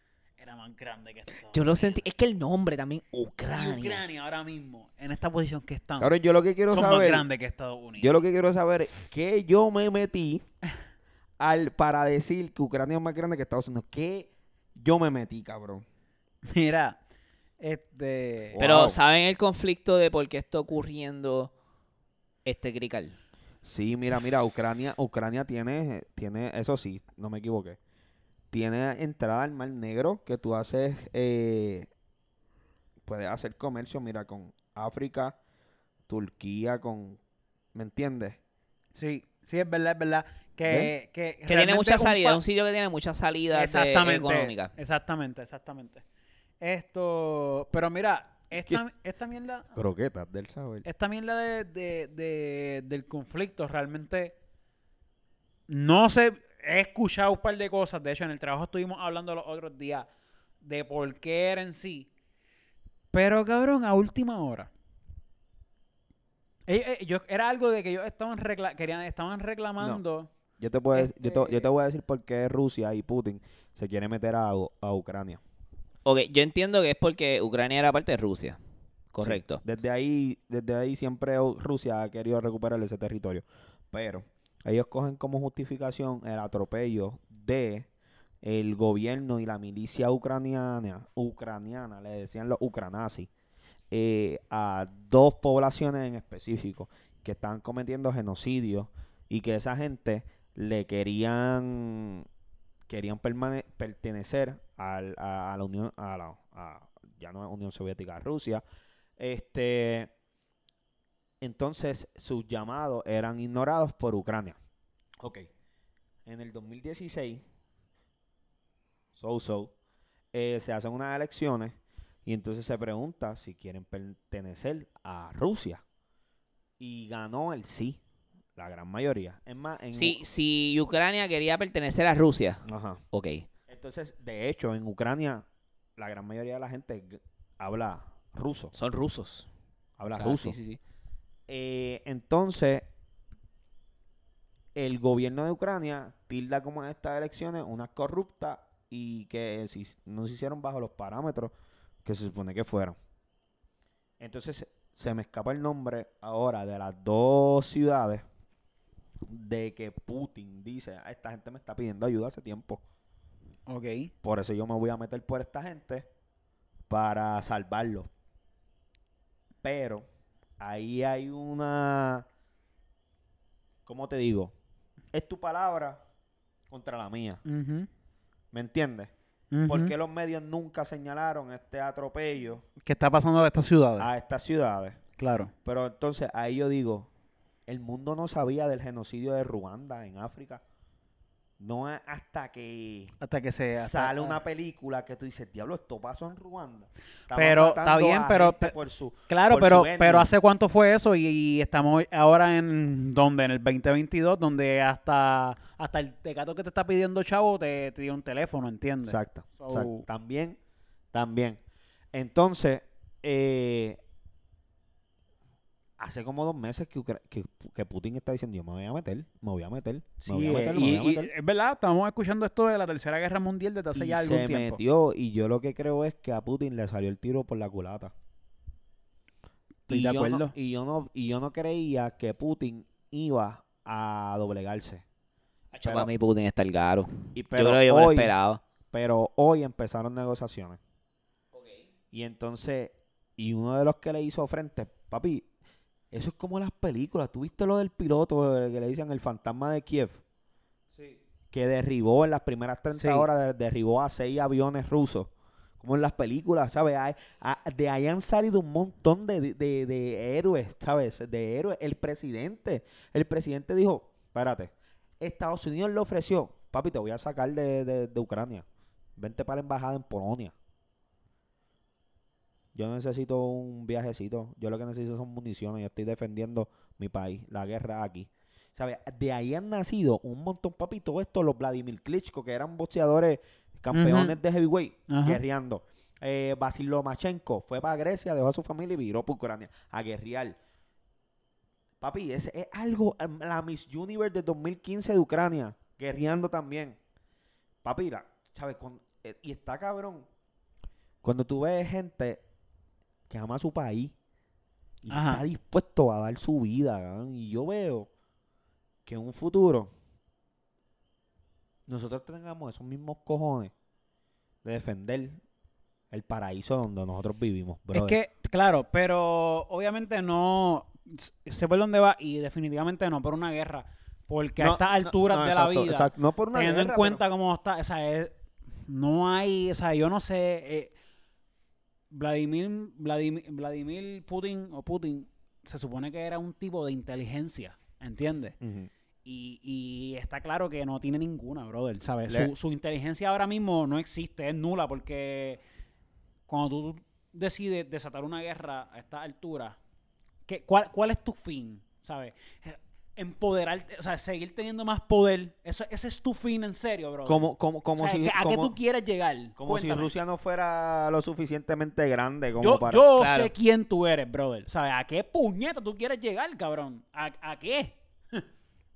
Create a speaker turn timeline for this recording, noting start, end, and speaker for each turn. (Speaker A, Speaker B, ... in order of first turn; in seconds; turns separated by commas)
Speaker A: 0.4-2.0, Speaker B: 1.5-4.0, Speaker A: 3.6-6.1, Speaker C: 6.0-7.3, Speaker A: 6.7-8.1, Speaker C: 8.0-10.4, Speaker C: 11.4-15.8, Speaker A: 16.5-17.0, Speaker A: 17.6-18.6, Speaker C: 18.5-19.0, Speaker B: 18.6-21.5, Speaker B: 22.4-23.2, Speaker C: 23.6-27.8, Speaker C: 28.5-31.9, Speaker C: 33.1-35.4, Speaker C: 36.1-37.2, Speaker C: 37.7-38.4, Speaker A: 39.0-42.4, Speaker C: 40.7-40.9, Speaker B: 41.5-44.7, Speaker A: 43.5-46.0, Speaker A: 46.6-49.7, Speaker C: 49.7-50.9, Speaker A: 50.9-54.4, Speaker A: 55.7-60.1, Speaker A: 60.6-62.1, Speaker A: 63.1-64.7, Speaker A: 66.7-70.3, Speaker C: 70.6-75.4, Speaker A: 70.9-71.7, Speaker B: 76.0-78.6, Speaker B: 79.1-79.6, Speaker C: 79.2-87.9, Speaker C: 88.4-93.3, Speaker C: 93.9-102.3, Speaker C: 102.9-108.6, Speaker C: 109.2-110.1, Speaker C: 111.4-114.6, Speaker C: 115.2-115.5, Speaker C: 116.3-117.4, Speaker C: 119.2-119.7, Speaker C: 120.3-125.8, Speaker C: 126.8-128.0, Speaker C: 128.6-130.2, Speaker B: 129.9-133.5, Speaker C: 132.7-133.0, Speaker C: 133.7-135.4, Speaker C: 136.0-138.8, Speaker B: 138.7-139.5, Speaker C: 140.0-140.6, Speaker B: 140.1-140.8, Speaker C: 141.5-142.9, Speaker C: 144.8-151.5, Speaker C: 152.1-153.0, Speaker C: 154.2-158.2, Speaker C: 159.3-162.8, Speaker A: 163.7-164.1, Speaker C: 164.2-166.1, Speaker C: 166.9-168.1, Speaker C: 169.6-170.1, Speaker C: 170.6-172.3, Speaker C: 173.9-174.5, Speaker C: 175.1-176.0, Speaker C: 176.7-177.4, Speaker A: 177.4-177.9, Speaker C: 178.5-179.1, Speaker A: 179.5-179.9, Speaker C: 179.7-182.7, Speaker A: 182.8-184.1, Speaker C: 184.0-185.0, Speaker A: 185.2-185.5, Speaker C: 185.7-187.1, Speaker C: 187.7-190.6, Speaker C: 191.6-193.2, Speaker A: 193.2-194.4, Speaker C: 193.7-200.3, Speaker A: 197.3-198.7, Speaker A: 199.3-210.1, Speaker C: 209.0-210.6, Speaker C: 211.1-211.6, Speaker C: 212.1-214.0, Speaker C: 216.0-221.3, Speaker A: 220.2-224.8, Speaker C: 223.9-228.1, Speaker A: 229.9-230.5, Speaker C: 229.9-235.0, Speaker B: 235.7-238.6, Speaker C: 235.8-236.1, Speaker C: 237.3-238.3, Speaker C: 238.9-240.8, Speaker B: 241.5-241.8, Speaker C: 242.1-245.5, Speaker C: 246.1-250.2, Speaker C: 251.5-268.7, Speaker A: 252.9-253.3, Speaker C: 269.2-270.6, Speaker C: 272.8-290.6, Speaker A: 283.9-284.4, Speaker A: 285.1-285.4, Speaker C: 292.0-297.0, Speaker C: 297.8-300.3, Speaker C: 301.2-302.4, Speaker C: 303.3-304.1, Speaker C: 305.0-308.1, Speaker A: 305.1-305.4, Speaker C: 309.1-309.9, Speaker C: 311.9-313.7, Speaker C: 314.6-315.4, Speaker C: 316.1-318.2, Speaker A: 317.9-330.9, Speaker C: 324.6-327.2, Speaker A: 332.1-338.6, Speaker C: 338.6-338.9, Speaker A: 339.2-345.6, Speaker C: 342.3-342.5, Speaker A: 346.5-349.8, Speaker A: 350.5-357.4, Speaker C: 357.2-358.8, Speaker A: 358.0-360.1, Speaker C: 359.6-363.1, Speaker A: 362.6-368.4, Speaker B: 363.2-363.5